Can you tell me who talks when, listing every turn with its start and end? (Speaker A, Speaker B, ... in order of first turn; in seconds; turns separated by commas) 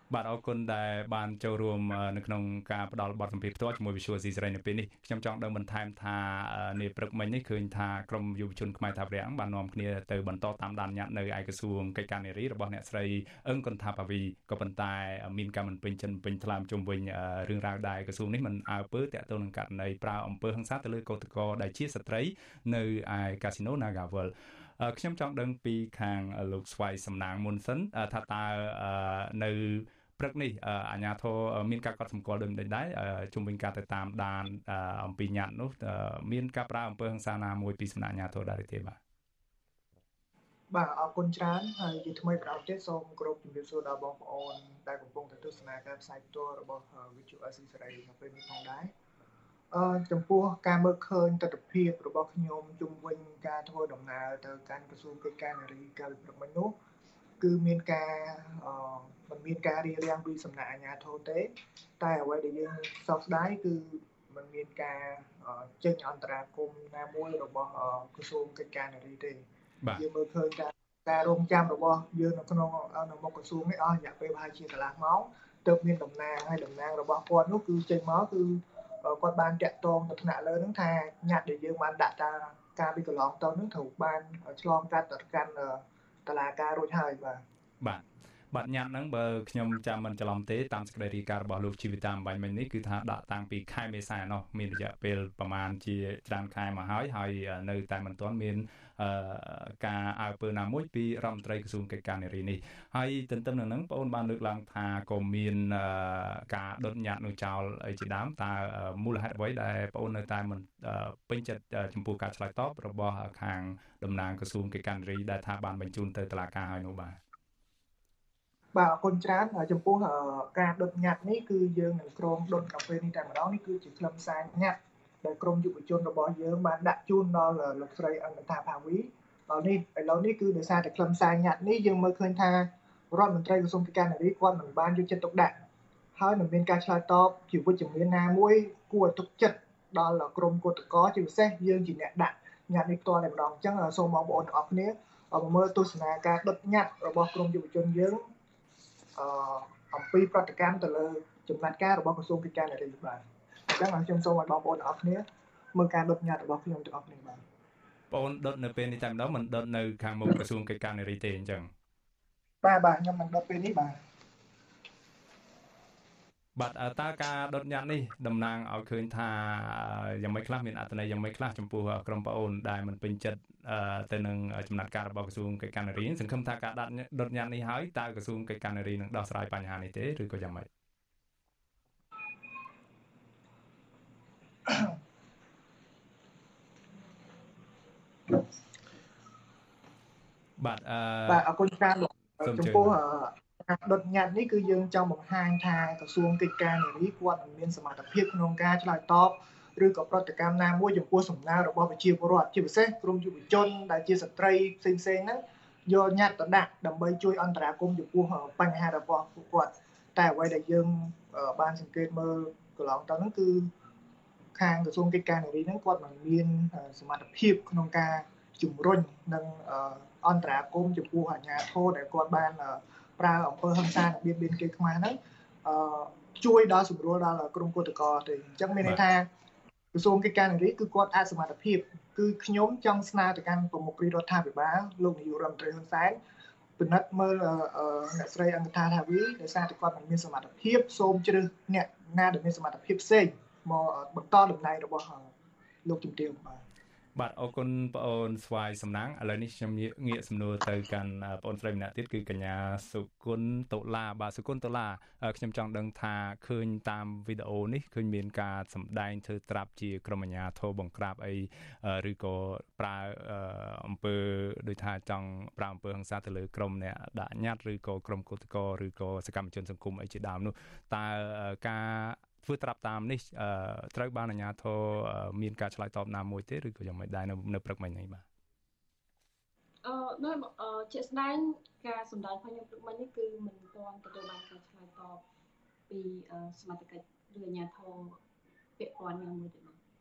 Speaker A: 0.1-39.0, Speaker B: 40.7-48.9, Speaker B: 49.7-56.7, Speaker B: 57.4-69.4, Speaker B: 70.0-87.4, Speaker A: 87.8-117.2, Speaker B: 118.7-135.5, Speaker B: 136.1-148.2, Speaker B: 149.1-157.4, Speaker A: 158.1-161.7, Speaker B: 162.6-164.0, Speaker A: 166.6-180.7, Speaker A: 190.6-191.5, Speaker B: 191.3-213.7, Speaker A: 192.4-193.0, Speaker B: 214.5-229.3, Speaker B: 229.9-236.2, Speaker B: 236.8-245.3, Speaker B: 245.8-246.6, Speaker A: 247.2-278.2, Speaker C: 279.8-285.2, Speaker C: 285.9-288.2, Speaker C: 288.8-289.8